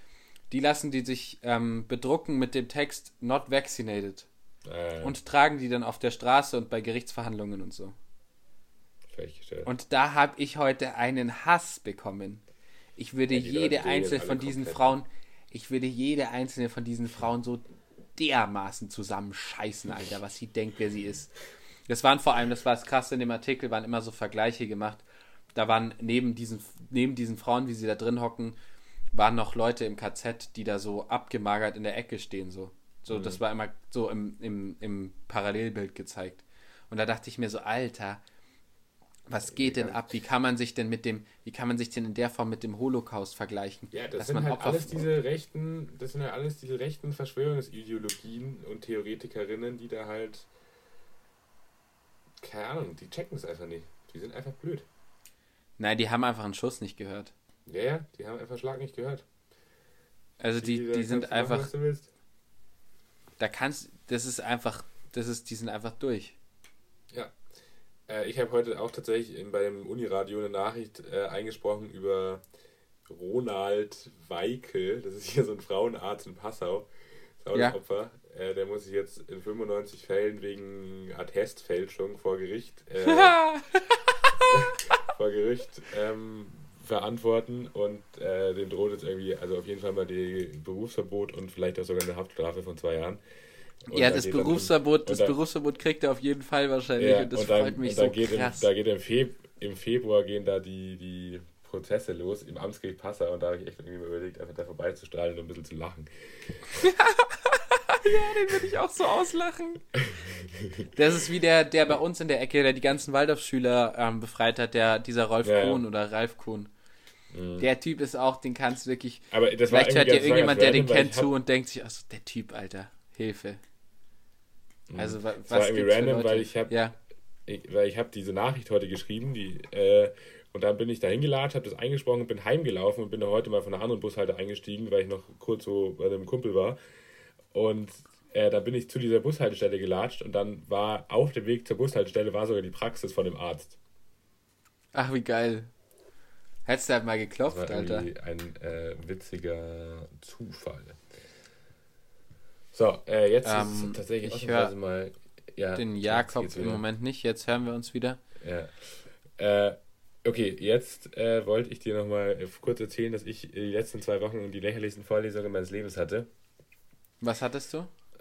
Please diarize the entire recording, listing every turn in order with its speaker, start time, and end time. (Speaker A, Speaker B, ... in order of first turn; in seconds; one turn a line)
Speaker A: 0.5-4.3
Speaker B: 4.6-5.2
Speaker A: 5.0-8.0
Speaker B: 9.1-9.7
Speaker A: 9.7-12.4
Speaker A: 13.0-21.3
Speaker B: 13.3-15.0
Speaker A: 21.9-28.6
Speaker A: 29.1-38.2
Speaker B: 33.1-33.4
Speaker A: 39.3-45.0
Speaker B: 39.5-40.0
Speaker B: 43.9-50.5
Speaker B: 52.4-54.9
Speaker A: 55.8-57.3
Speaker B: 57.7-59.2
Speaker A: 60.4-61.7
Speaker B: 60.6-62.1
Speaker A: 63.4-66.4
Speaker B: 68.1-72.4
Speaker B: 73.1-76.9
Speaker B: 77.4-83.3
Speaker A: 83.1-84.8
Speaker B: 84.5-93.2
Speaker B: 93.9-95.3
Speaker A: 93.9-98.7
Speaker B: 97.0-106.8
Speaker A: 106.7-109.8
Speaker B: 110.0-110.9
Speaker A: 110.9-116.7
Speaker B: 115.4-115.8
Speaker B: 117.3-117.6
Speaker A: 117.6-123.6
Speaker B: 119.3-121.3
Speaker B: 124.9-126.7
Speaker A: 125.0-126.9
Speaker B: 127.5-136.8
Speaker B: 137.5-143.8
Speaker A: 144.9-145.7
Speaker A: 146.7-148.1
Speaker B: 147.5-151.0
Speaker B: 152.7-156.8
Speaker A: 153.4-154.7
Speaker A: 155.7-158.2
Speaker B: 158.4-166.3
Speaker A: 167.2-167.9